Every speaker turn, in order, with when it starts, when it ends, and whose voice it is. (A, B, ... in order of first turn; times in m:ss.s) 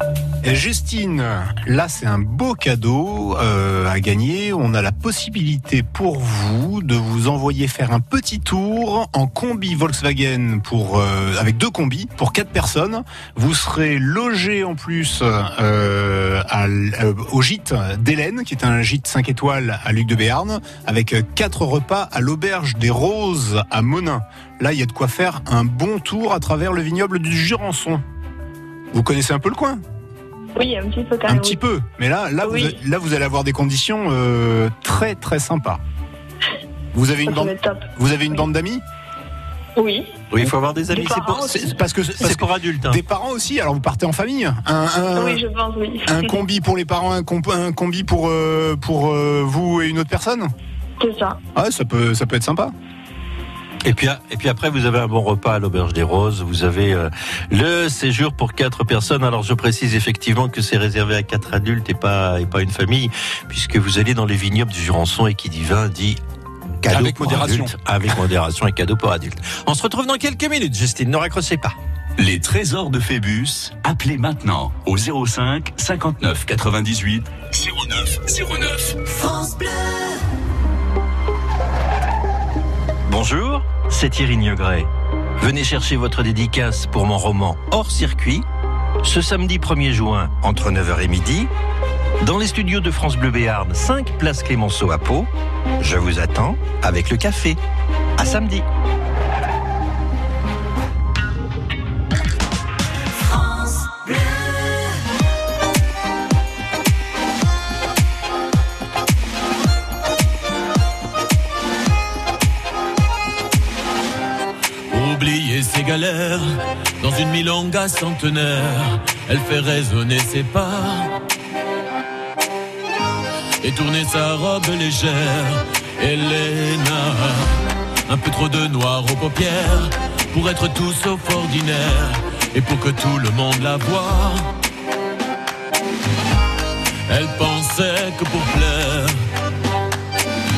0:00.4-0:28.0 A
0:28.9-0:29.8 A
0:30.6-0:31.6 B
0:31.2-0:35.8 A
0:32.4-0:32.8 B
0:36.9-0:38.8 A
0:37.2-0:37.9 B
0:39.8-0:40.1 B
0:40.3-0:43.0 C
0:40.9-0:41.7 B
0:41.4-0:45.4 A
0:45.1-0:46.4 B
0:46.0-0:50.5 A
0:51.0-0:51.4 B
0:51.5-0:52.7 A
0:53.8-1:06.2 C
1:06.8-1:11.8 C
1:06.8-1:07.7 A
1:12.2-1:19.0 D
1:23.0-1:24.9 C
1:25.4-1:28.4 C
1:29.0-1:31.5 C
1:32.2-1:35.3 C
1:35.8-1:37.6 C
1:38.2-1:38.6 C
1:54.9-2:01.1 E
2:03.6-2:14.5 E
2:17.1-2:19.1 E